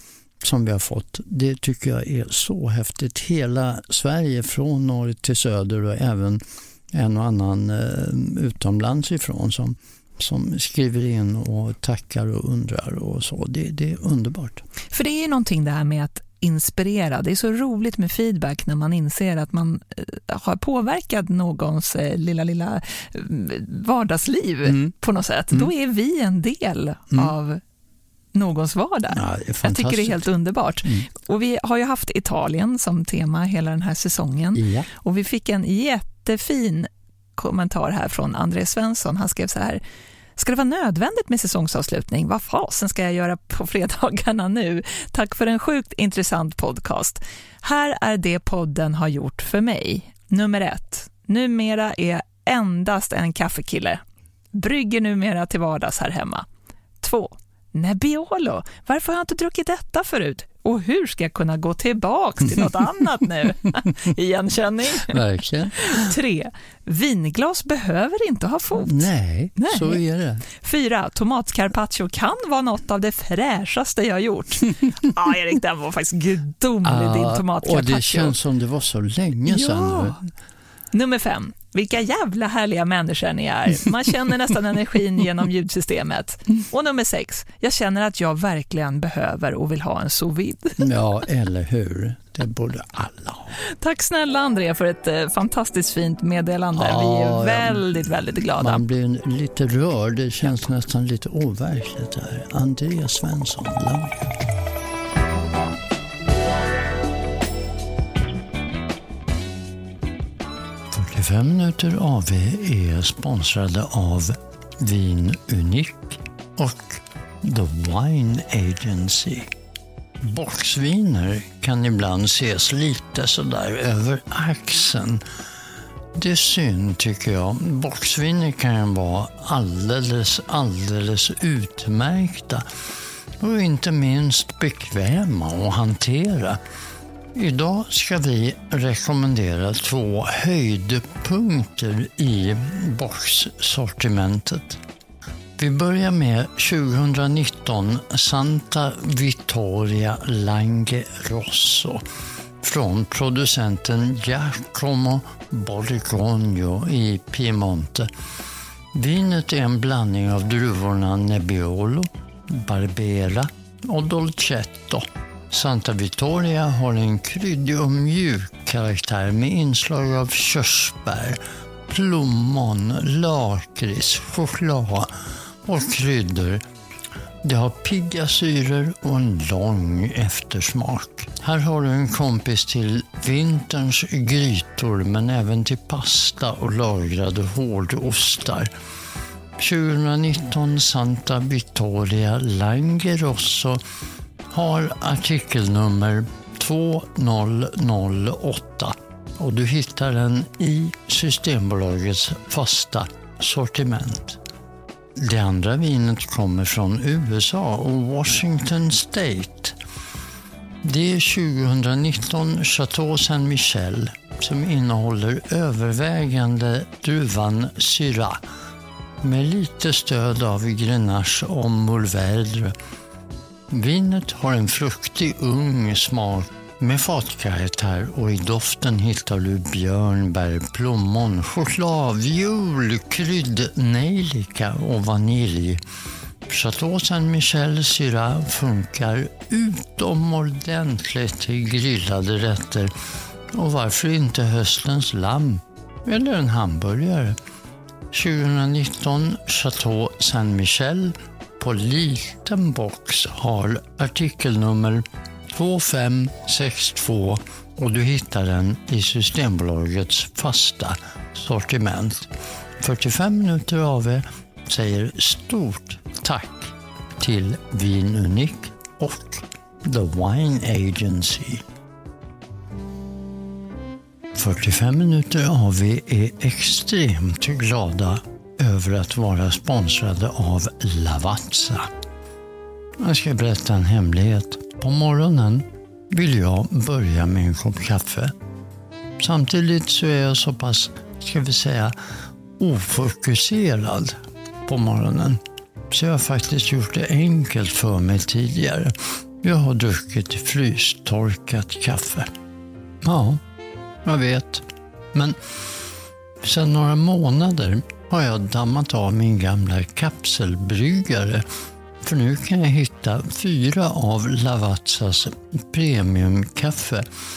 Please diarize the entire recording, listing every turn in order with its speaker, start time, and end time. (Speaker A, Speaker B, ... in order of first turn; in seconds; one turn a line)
Speaker A: 0.4-14.6
Speaker B: 14.9-27.6
Speaker A: 24.6-24.9
Speaker B: 28.3-39.8
Speaker A: 29.1-30.3
Speaker A: 34.5-34.9
Speaker B: 40.4-54.0
Speaker B: 54.5-56.5
Speaker B: 57.0-65.2
Speaker A: 65.0-66.1
Speaker B: 65.8-70.0
Speaker A: 68.8-70.5
Speaker B: 70.5-78.3
Speaker A: 76.8-80.2
Speaker B: 79.5-80.2
Speaker B: 80.9-90.8
Speaker A: 90.8-93.5
Speaker B: 93.8-98.8
Speaker A: 96.7-97.8
Speaker A: 98.6-104.3
Speaker A: 110.9-119.5
Speaker A: 120.2-125.2
Speaker A: 126.1-132.6
Speaker A: 133.4-136.6
Speaker A: 137.3-144.8
Speaker A: 145.6-152.0
Speaker A: 152.6-158.1
Speaker A: 158.9-175.1
Speaker A: 175.6-176.6
Speaker A: 177.4-188.7
Speaker A: 189.6-193.8
Speaker A: 194.5-204.4
Speaker A: 205.2-209.8
Speaker A: 210.8-218.4
Speaker A: 219.2-222.7
Speaker A: 223.7-235.8
Speaker A: 236.5-242.9
Speaker A: 243.5-247.4
Speaker A: 248.1-271.6
Speaker A: 274.3-281.9
Speaker A: 283.0-288.3
Speaker A: 289.2-291.9
Speaker A: 292.6-302.3
Speaker A: 303.0-303.4
Speaker A: 304.0-305.6
Speaker A: 306.4-311.4
Speaker A: 312.0-317.0